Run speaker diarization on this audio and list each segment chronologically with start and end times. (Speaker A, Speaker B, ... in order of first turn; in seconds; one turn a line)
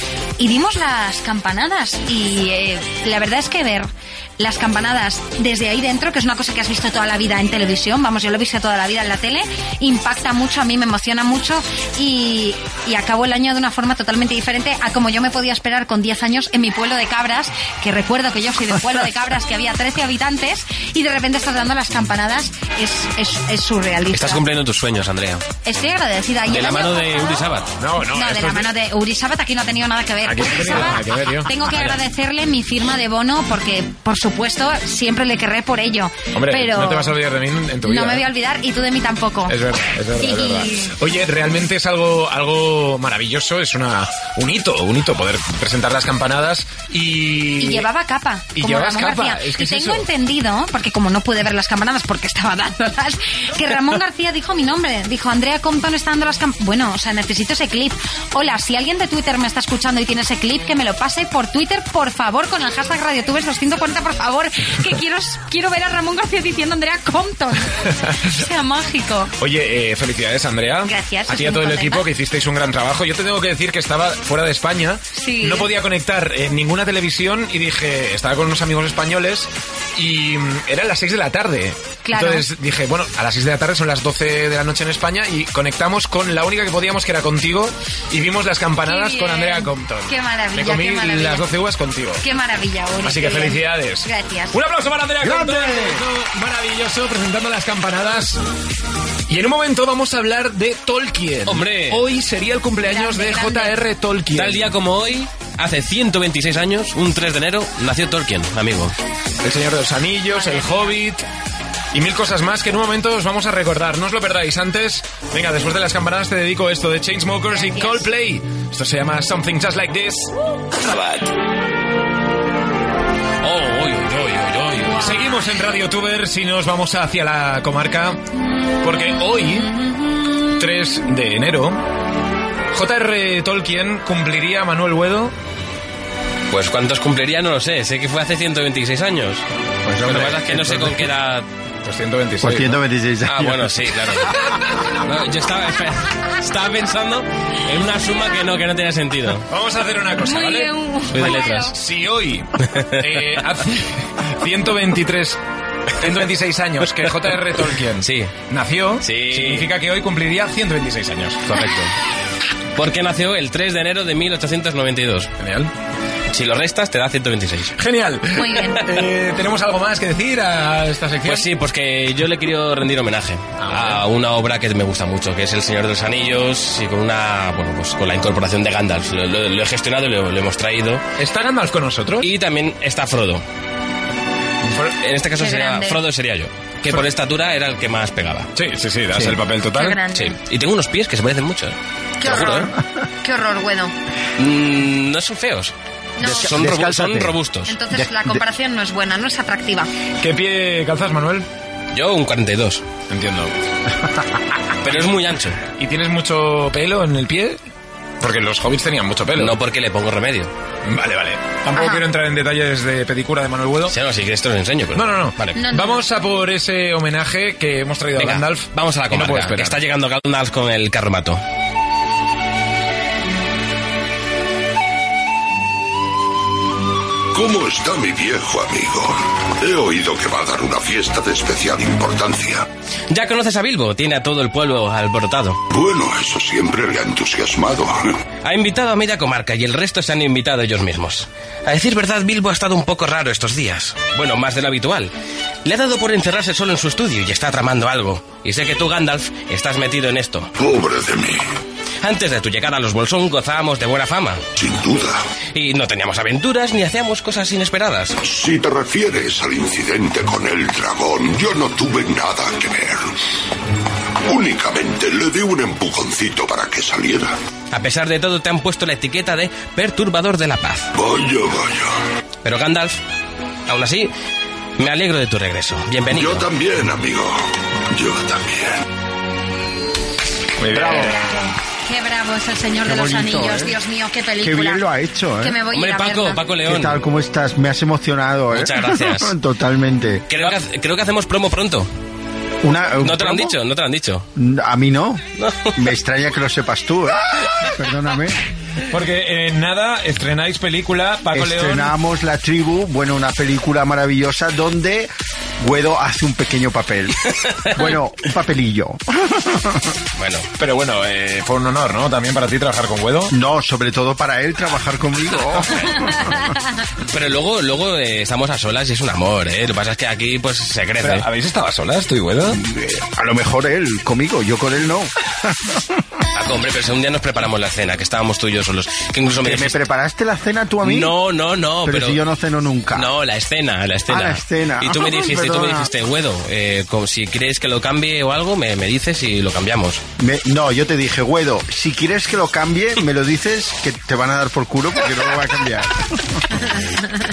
Speaker A: 0.4-24.4
Speaker B: 24.1-25.4
Speaker A: 25.6-27.5
Speaker B: 26.5-27.7
Speaker C: 27.8-28.7
Speaker A: 28.1-37.1
Speaker C: 30.2-31.9
Speaker C: 36.3-38.2
Speaker A: 37.8-39.6
Speaker C: 39.5-47.9
Speaker A: 40.2-41.0
Speaker A: 47.6-67.7
Speaker C: 48.5-50.0
Speaker A: 68.2-69.3
Speaker C: 69.4-92.2
Speaker A: 70.8-72.1
Speaker A: 75.1-75.7
Speaker A: 82.0-82.5
Speaker A: 88.8-91.4
Speaker A: 92.2-94.6
Speaker C: 93.0-98.4
Speaker D: 95.2-96.0
Speaker C: 99.3-104.7
Speaker B: 101.5-102.0
Speaker A: 102.8-103.8
Speaker B: 104.3-108.9
Speaker C: 109.4-111.2
Speaker A: 110.3-110.9
Speaker C: 111.9-120.3
Speaker A: 117.5-118.1
Speaker B: 120.9-121.2
Speaker B: 123.4-125.0
Speaker C: 124.9-128.2
Speaker A: 125.1-125.4
Speaker C: 128.8-129.7
Speaker C: 130.6-131.8
Speaker C: 132.7-135.3
Speaker B: 136.5-139.4
Speaker D: 139.8-140.8
Speaker B: 140.0-141.4
Speaker C: 140.6-140.9
Speaker C: 141.8-142.8
Speaker D: 142.4-143.7
Speaker B: 143.2-144.3
Speaker B: 145.0-149.4
Speaker C: 149.5-155.4
Speaker A: 150.2-151.6
Speaker B: 151.1-151.7
Speaker C: 156.0-161.9
Speaker B: 158.0-158.3
Speaker B: 159.0-159.7
Speaker B: 162.8-165.3
Speaker C: 165.4-165.7
Speaker B: 166.3-167.7
Speaker C: 167.8-171.5
Speaker A: 168.3-168.9
Speaker B: 171.2-181.0
Speaker C: 173.6-174.0
Speaker C: 181.2-182.3
Speaker B: 182.2-183.4
Speaker C: 184.7-184.9
Speaker B: 185.0-188.5
Speaker A: 185.4-186.0
Speaker C: 188.6-190.0
Speaker A: 189.7-190.4
Speaker B: 190.1-192.7
Speaker A: 192.2-193.9
Speaker B: 194.4-197.8
Speaker A: 196.2-196.6
Speaker D: 196.2-197.3
Speaker A: 197.7-199.9
Speaker D: 197.9-198.4
Speaker C: 200.2-201.5
Speaker B: 201.9-202.8
Speaker C: 203.1-203.5
Speaker B: 204.8-205.6
Speaker C: 205.7-207.6
Speaker C: 208.2-209.6
Speaker B: 209.4-210.5
Speaker C: 210.8-213.9
Speaker B: 213.9-215.6
Speaker C: 214.9-219.8
Speaker A: 215.6-216.0
Speaker B: 218.2-221.4
Speaker E: 227.3-232.7
Speaker B: 233.1-235.6
Speaker E: 235.7-238.1
Speaker B: 238.4-245.1
Speaker B: 245.6-250.5
Speaker E: 250.6-251.4
Speaker B: 252.0-254.4
Speaker E: 254.6-255.2
Speaker B: 255.5-258.2
Speaker E: 258.2-263.1
Speaker E: 264.3-267.3
Speaker B: 267.7-270.9
Speaker E: 270.9-271.9
Speaker B: 272.4-273.0
Speaker B: 273.7-274.1
Speaker B: 274.8-276.4
Speaker E: 276.1-277.4
Speaker E: 277.9-278.8
Speaker C: 280.6-281.1
Speaker D: 280.7-281.2
Speaker A: 281.0-284.9
Speaker D: 282.8-283.7
Speaker D: 284.4-285.6
Speaker A: 285.4-286.4
Speaker B: 285.7-287.0
Speaker D: 286.6-290.2
Speaker B: 288.5-289.3
Speaker B: 290.3-291.9
Speaker D: 292.6-293.6
Speaker B: 293.0-294.3
Speaker D: 294.4-295.2
Speaker B: 295.4-295.8
Speaker D: 295.8-298.4
Speaker C: 298.9-301.9
Speaker D: 301.3-307.2
Speaker D: 307.7-309.6
Speaker B: 310.1-310.5
Speaker C: 310.6-313.3
Speaker D: 313.3-316.4
Speaker B: 317.1-321.2
Speaker C: 321.0-322.6
Speaker D: 322.6-325.5
Speaker B: 326.3-329.8
Speaker D: 329.4-331.1
Speaker B: 330.8-332.2
Speaker D: 331.8-333.1
Speaker B: 332.9-340.0
Speaker D: 334.1-335.9
Speaker D: 340.2-346.1